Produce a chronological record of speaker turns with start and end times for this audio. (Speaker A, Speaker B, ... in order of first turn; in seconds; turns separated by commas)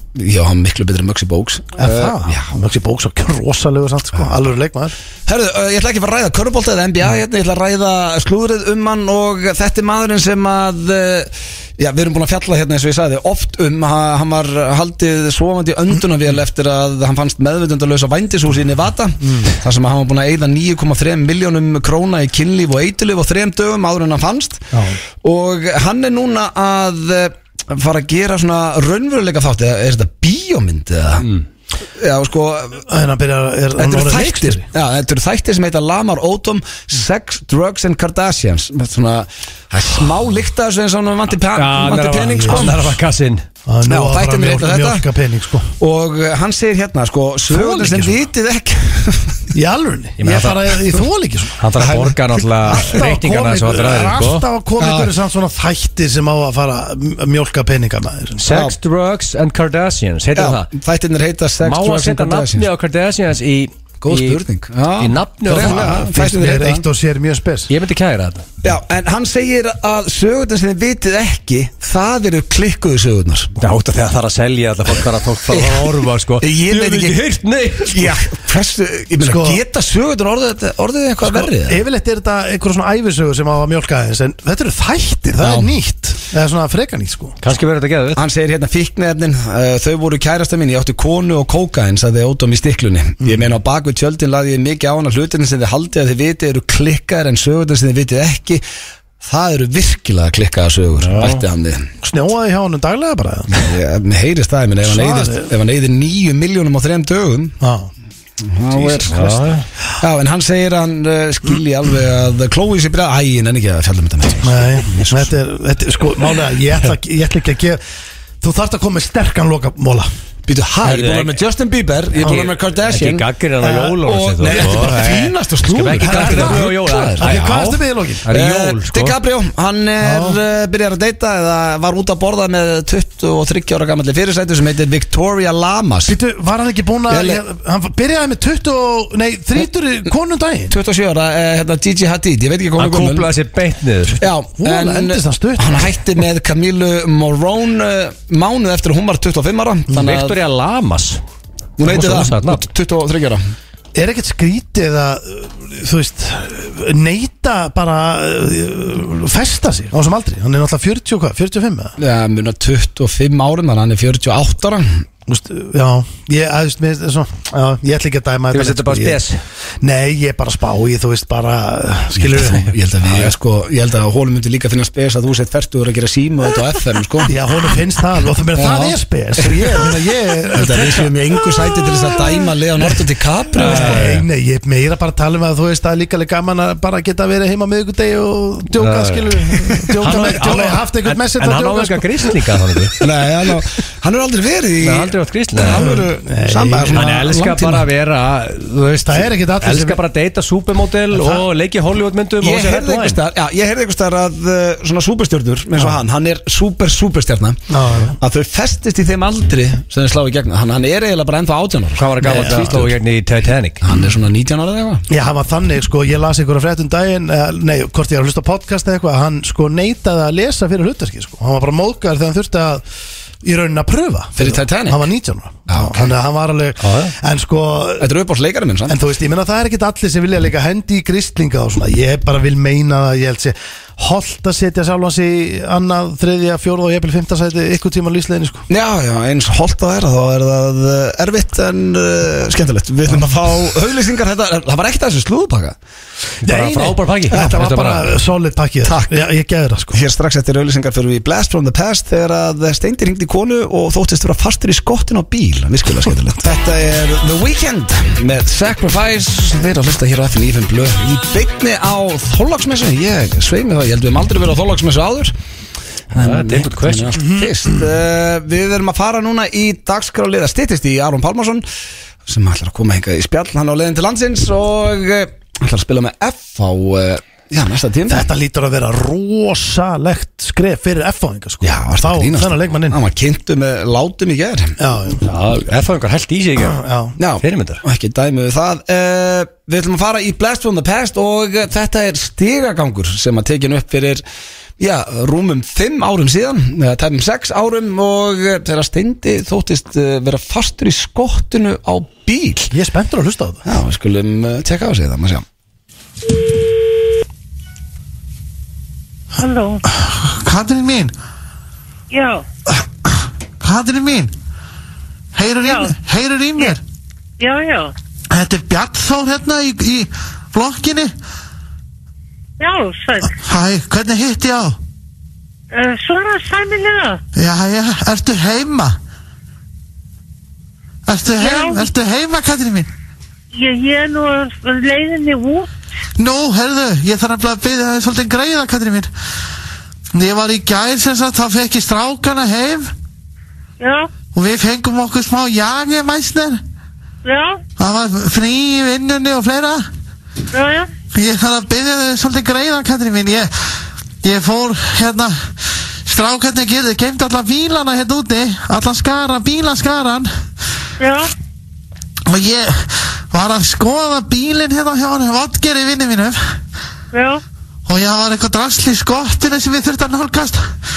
Speaker A: 0.1-2.5, Speaker B: 1.8-4.9, Speaker A: 5.2-24.7, Speaker B: 19.2-19.5, Speaker B: 24.7-25.0, Speaker A: 25.2-31.3, Speaker A: 31.9-32.8, Speaker B: 32.9-34.6, Speaker A: 33.8-42.8, Speaker C: 41.4-43.4, Speaker B: 42.4-42.9, Speaker B: 43.6-45.7, Speaker A: 43.9-45.0, Speaker A: 45.8-49.5, Speaker B: 47.5-48.2, Speaker B: 49.5-51.6, Speaker C: 50.2-50.8, Speaker C: 51.6-54.4, Speaker A: 51.8-52.9, Speaker B: 52.6-58.5, Speaker A: 54.8-55.1, Speaker C: 58.4-60.7, Speaker A: 58.5-58.8, Speaker A: 60.4-62.7, Speaker C: 61.6-64.4, Speaker A: 64.0-66.8, Speaker C: 65.0-66.1, Speaker B: 65.5-67.7, Speaker C: 67.7-68.4, Speaker A: 68.6-73.5, Speaker C: 73.6-78.3, Speaker A: 75.5-77.2, Speaker A: 77.9-81.8, Speaker B: 79.2-79.6, Speaker B: 81.2-87.4, Speaker A: 85.4-85.7, Speaker C: 87.4-88.2, Speaker A: 88.1-98.6, Speaker B: 93.2-93.5, Speaker A: 99.2-101.9, Speaker C: 101.0-101.4, Speaker B: 102.0-103.7, Speaker A: 103.5-107.5, Speaker B: 104.8-105.5, Speaker B: 107.6-107.9, Speaker A: 108.4-109.4, Speaker B: 108.8-109.1, Speaker C: 109.0-109.7, Speaker A: 110.0-115.3, Speaker B: 114.4-117.8, Speaker B: 118.4-120.1, Speaker A: 120.5-127.4, Speaker C: 120.8-121.4, Speaker C: 122.1-129.2, Speaker B: 122.2-122.5, Speaker B: 124.4-125.1, Speaker B: 126.0-128.2, Speaker A: 128.3-136.2, Speaker B: 130.0-130.4, Speaker B: 136.0-140.7, Speaker A: 137.1-137.4, Speaker A: 140.7-143.3, Speaker C: 142.8-144.2, Speaker A: 144.2-150.3, Speaker B: 144.5-146.0, Speaker C: 149.9-151.2, Speaker A: 151.8-153.4, Speaker C: 151.8-152.7, Speaker B: 153.9-162.0, Speaker A: 162.0-165.0, Speaker B: 165.3-169.2, Speaker C: 168.5-169.4, Speaker B: 169.8-172.7, Speaker A: 172.2-177.3, Speaker C: 173.1-173.3, Speaker B: 177.2-181.1, Speaker A: 178.6-184.0, Speaker B: 183.6-192.9, Speaker C: 183.6-184.2, Speaker C: 188.8-189.5, Speaker C: 190.0-193.0, Speaker A: 193.0-197.4, Speaker C: 194.8-196.0, Speaker B: 195.7-197.8, Speaker C: 196.8-203.2, Speaker B: 199.0-200.0, Speaker B: 201.1-201.4, Speaker A: 202.4-207.6, Speaker B: 207.7-208.2, Speaker A: 208.2-212.9, Speaker C: 212.0-213.8, Speaker B: 212.2-212.8, Speaker A: 213.8-215.0, Speaker B: 215.1-222.8, Speaker B: 223.4-228.1, Speaker A: 224.3-225.0, Speaker A: 225.7-226.1, Speaker C: 226.8-227.1, Speaker A: 228.0-229.0, Speaker B: 228.9-238.6, Speaker A: 238.7-245.8, Speaker C: 246.4-248.1, Speaker B: 246.4-250.0, Speaker A: 248.8-249.2, Speaker A: 249.9-265.3, Speaker A: 266.1-271.6, Speaker C: 266.1-267.2, Speaker A: 272.2-278.3, Speaker B: 278.1-283.0, Speaker A: 281.6-284.8, Speaker B: 284.8-285.2, Speaker C: 285.2-286.8, Speaker B: 286.7-287.1, Speaker A: 287.2-294.2, Speaker C: 287.4-287.8, Speaker A: 294.8-302.7, Speaker B: 302.7-303.7, Speaker A: 303.6-305.4, Speaker D: 309.4-309.8, Speaker E: 310.1-311.1, Speaker D: 312.1-312.4, Speaker E: 313.1-314.3, Speaker E: 315.3-316.8, Speaker D: 315.6-316.0, Speaker D: 317.4-317.9, Speaker E: 318.3-321.1, Speaker D: 322.6-323.3, Speaker E: 323.4-324.8, Speaker D: 325.7-327.2, Speaker E: 327.4-329.0, Speaker E: 331.1-332.9, Speaker D: 331.4-331.9, Speaker D: 333.5-335.7, Speaker E: 336.2-339.1, Speaker E: 340.1-342.9, Speaker D: 343.8-344.1, Speaker E: 344.3-346.6, Speaker D: 347.2-347.6, Speaker E: 347.8-349.8, Speaker D: 350.5-350.9, Speaker E: 351.1-353.5, Speaker E: 354.2-355.4, Speaker E: 356.1-360.3, Speaker D: 361.0-361.3, Speaker E: 362.3-366.4, Speaker D: 367.1-367.4, Speaker E: 367.9-370.6